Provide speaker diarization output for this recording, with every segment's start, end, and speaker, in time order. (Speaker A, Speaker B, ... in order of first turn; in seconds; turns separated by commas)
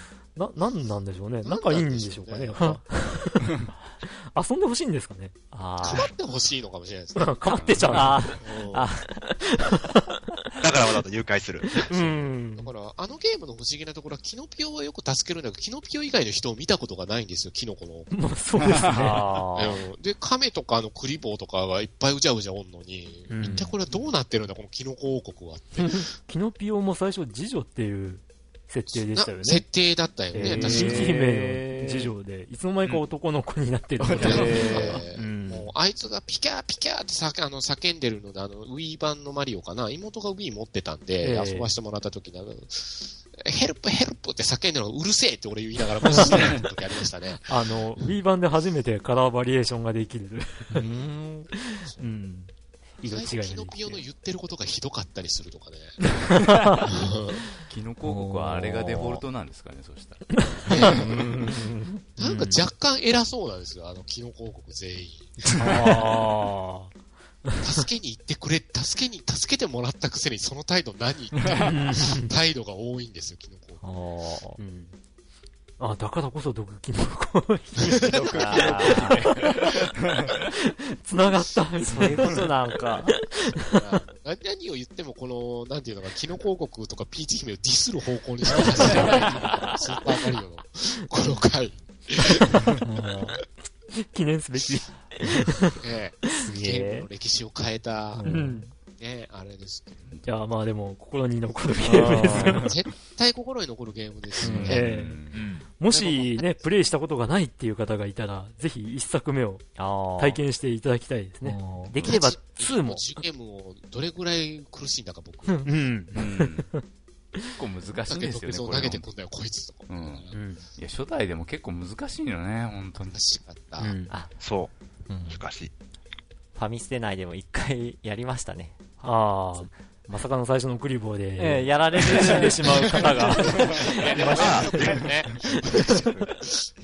Speaker A: 0.3-5.3, Speaker B: 1.4-2.8, Speaker C: 5.5-6.1, Speaker B: 5.8-7.5, Speaker A: 7.2-8.4, Speaker D: 7.6-8.1, Speaker C: 7.8-9.4, Speaker B: 8.4-8.9, Speaker A: 9.4-10.0, Speaker E: 10.6-11.9, Speaker A: 11.9-12.7, Speaker B: 11.9-18.2, Speaker A: 18.1-19.2, Speaker D: 18.7-19.1, Speaker C: 18.9-19.8, Speaker B: 19.5-26.0, Speaker A: 23.3-23.7, Speaker C: 23.4-23.7, Speaker A: 25.8-29.6, Speaker B: 28.9-31.1, Speaker A: 30.3-35.7, Speaker C: 30.3-32.1, Speaker D: 34.0-34.6, Speaker C: 34.1-35.0, Speaker B: 34.2-47.7, Speaker A: 41.2-41.7, Speaker A: 46.1-46.4, Speaker A: 47.5-50.8, Speaker C: 50.7-51.5, Speaker B: 50.8-52.2, Speaker A: 51.5-54.0, Speaker B: 53.0-56.3, Speaker A: 56.3-56.9, Speaker B: 56.8-57.4, Speaker D: 57.6-61.2, Speaker C: 58.0-59.2, Speaker A: 60.4-61.6, Speaker B: 60.6-61.2, Speaker C: 61.2-62.0, Speaker B: 62.1-65.4, Speaker A: 62.2-62.6, Speaker C: 65.4-66.0, Speaker A: 65.5-66.9, Speaker A: 67.4-67.7, Speaker B: 67.6-73.9, Speaker A: 71.6-72.3, Speaker C: 73.8-74.6, Speaker A: 74.6-74.9, Speaker A: 75.8-79.7, Speaker B: 77.8-79.0, Speaker D: 78.0-80.3, Speaker C: 78.3-79.3, Speaker A: 80.5-82.5, Speaker C: 81.8-83.2, Speaker A: 83.1-83.8, Speaker B: 83.6-92.8, Speaker C: 88.5-89.2, Speaker C: 92.8-93.3, Speaker A: 92.8-95.8, Speaker B: 95.8-98.3, Speaker C: 96.3-97.0, Speaker A: 96.3-97.0, Speaker C: 98.1-98.7, Speaker A: 98.2-98.7, Speaker B: 99.0-100.2, Speaker A: 100.2-102.7, Speaker C: 101.8-102.7, Speaker B: 102.5-104.8, Speaker D: 104.4-105.5, Speaker C: 104.4-104.9, Speaker A: 104.6-105.2, Speaker E: 105.3-105.7, Speaker A: 105.8-113.0, Speaker B: 105.9-106.5, Speaker C: 109.8-110.4, Speaker C: 111.4-111.9, Speaker B: 112.0-115.7, Speaker A: 115.5-116.8, Speaker D: 116.1-116.7, Speaker D: 117.5-119.1, Speaker B: 118.1-120.4, Speaker D: 119.9-123.2, Speaker A: 120.3-120.6, Speaker B: 123.1-124.0, Speaker A: 123.8-124.1, Speaker E: 124.4-124.7, Speaker C: 125.1-125.4, Speaker E: 125.2-125.7, Speaker C: 126.5-129.7, Speaker A: 129.0-134.8, Speaker C: 131.4-134.8, Speaker B: 133.6-136.2, Speaker E: 134.3-135.1, Speaker A: 135.6-135.9, Speaker E: 135.9-136.3